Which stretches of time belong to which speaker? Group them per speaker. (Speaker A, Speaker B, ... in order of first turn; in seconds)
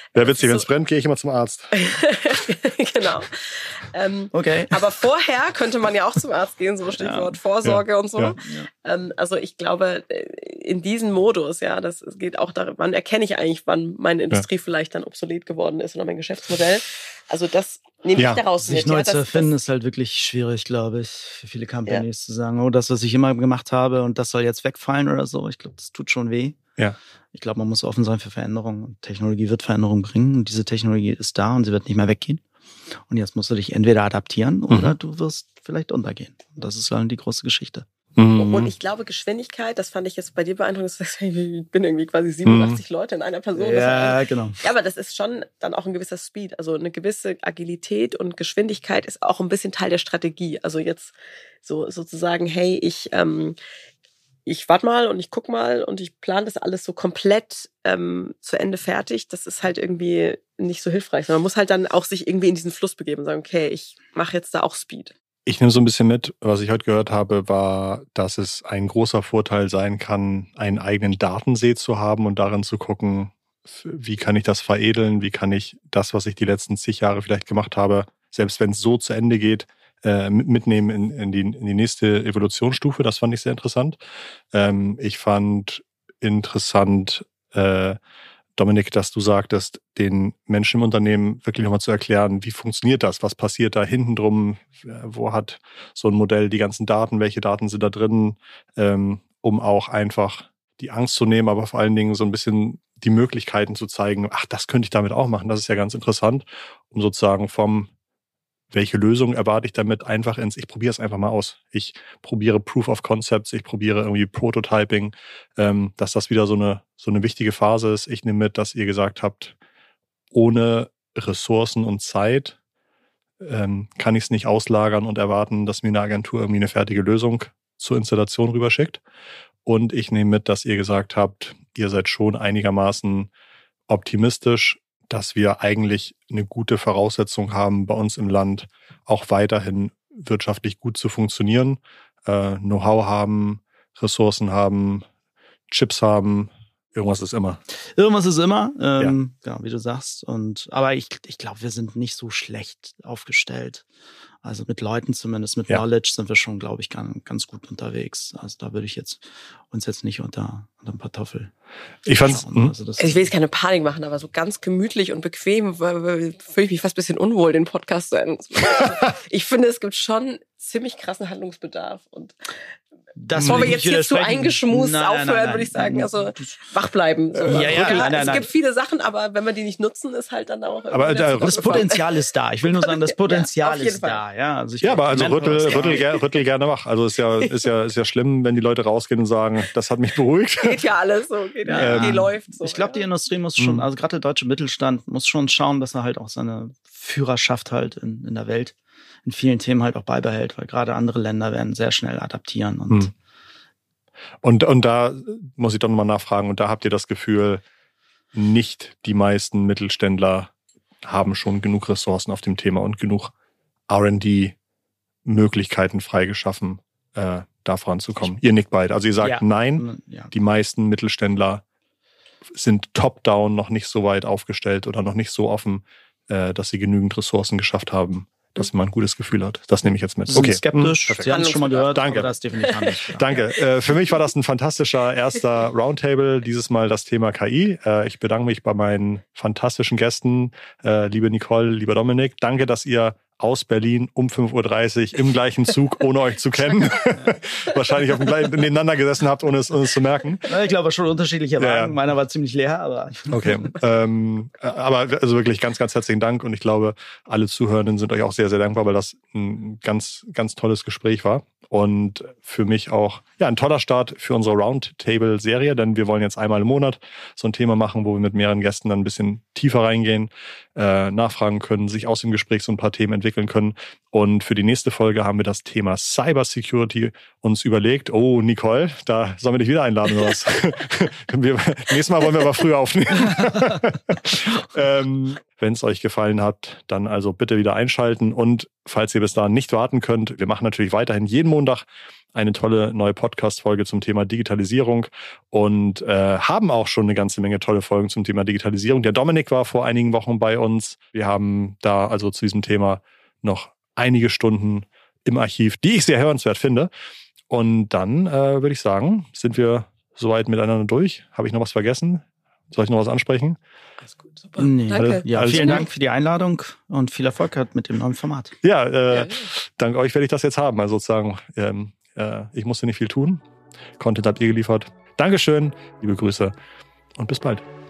Speaker A: 0.1-1.7, 7.6-8.4, 18.2-18.4, 34.7-34.9, 38.2-38.7, 42.5-42.8, 65.5-84.0, 84.5-88.0, 88.5-107.9, 108.7-119.5, 120.3-122.6, 123.4-129.0, 129.6-133.3, 133.9-145.0, 145.7-147.6, 162.1-162.7, 173.4-173.7, 177.4-178.1, 180.9-181.8, 184.8-190.8, 191.7-192.3, 193.6-193.8, 204.4-207.6, 208.3-210.5, 211.0-213.3, 213.9-214.5, 215.2-221.6, 222.5-231.4, 231.9-232.3, 233.0-250.5, 251.6-251.9, 253.3-306.9, 307.5-313.6, 315.0-315.9, 318.6-323.4, 324.0-326.5, 327.2-327.6
Speaker B: 0.1-0.7, 1.7-19.5, 38.3-53.6, 54.5-65.1, 163.0-172.3, 173.4-182.0, 182.6-184.2, 185.6-186.2, 190.6-193.0, 231.2-233.4, 314.0-315.8, 319.1-319.5
Speaker C: 4.3-4.8, 7.0-7.3, 8.4-8.7, 18.6-26.6, 27.3-32.4, 33.1-37.9, 43.5-44.6, 147.9-153.8, 154.4-161.5, 162.2-163.3, 173.2-176.6, 177.5-178.5, 181.4-186.1, 191.7-203.1, 219.2-220.3, 230.3-233.3, 247.1-247.4, 250.5-253.7, 314.6-318.5